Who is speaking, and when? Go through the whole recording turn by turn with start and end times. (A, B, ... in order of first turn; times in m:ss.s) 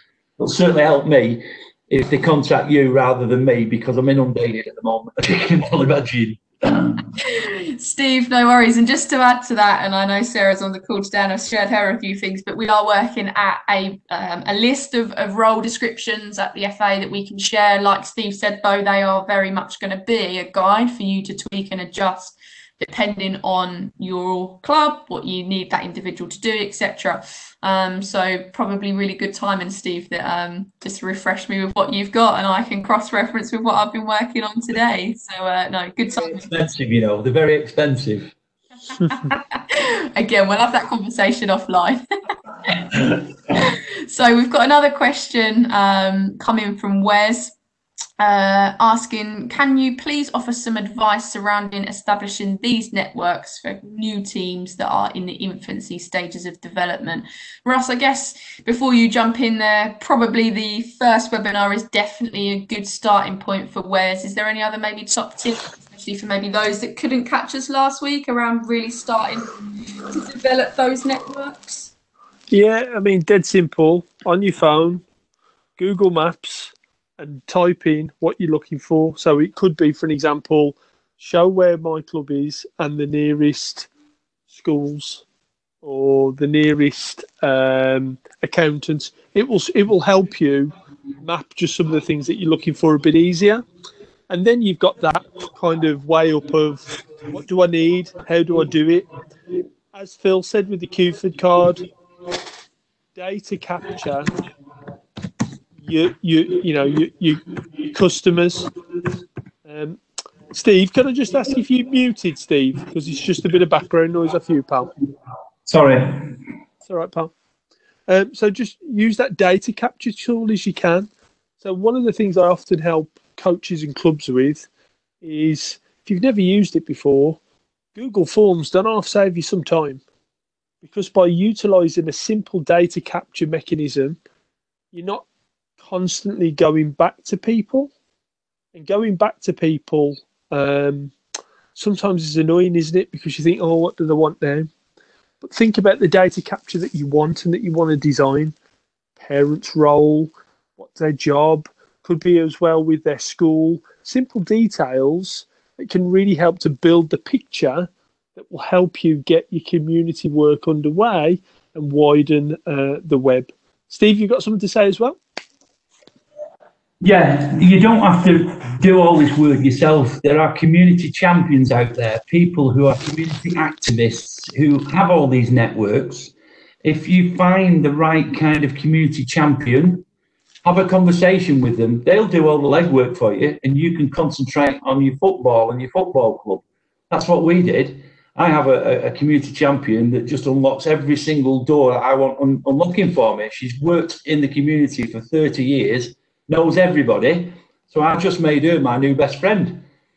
0:00.4-0:07.1 A
0:07.2-0:36.5 B
0:36.2-0:38.3 A
0:38.9-0:42.0 B
0:43.5-0:47.5 B
0:48.2-1:11.9 B
1:12.5-1:15.0 C
1:15.8-1:23.9 C
1:24.5-1:25.2 C
1:25.8-1:33.6 C
1:34.3-1:39.1 C
1:39.9-1:41.8 C
1:43.1-1:44.3 C
1:45.8-1:48.7 C
1:49.6-1:50.0 C
1:50.5-1:54.9 C
1:55.7-1:56.4 A
1:56.8-1:57.3 C
1:58.1-2:01.1 C
2:01.6-2:04.7 C
2:05.2-2:07.4 C
2:07.9-2:10.0 C
2:10.8-2:14.2 C
2:14.9-2:15.2 C
2:15.8-2:17.9 C
2:18.7-2:21.1 C
2:21.7-2:24.7 C
2:25.4-2:28.5 C
2:29.2-2:45.2 C
2:47.0-2:56.3 A
2:56.8-3:00.0 A
3:00.6-3:19.8 A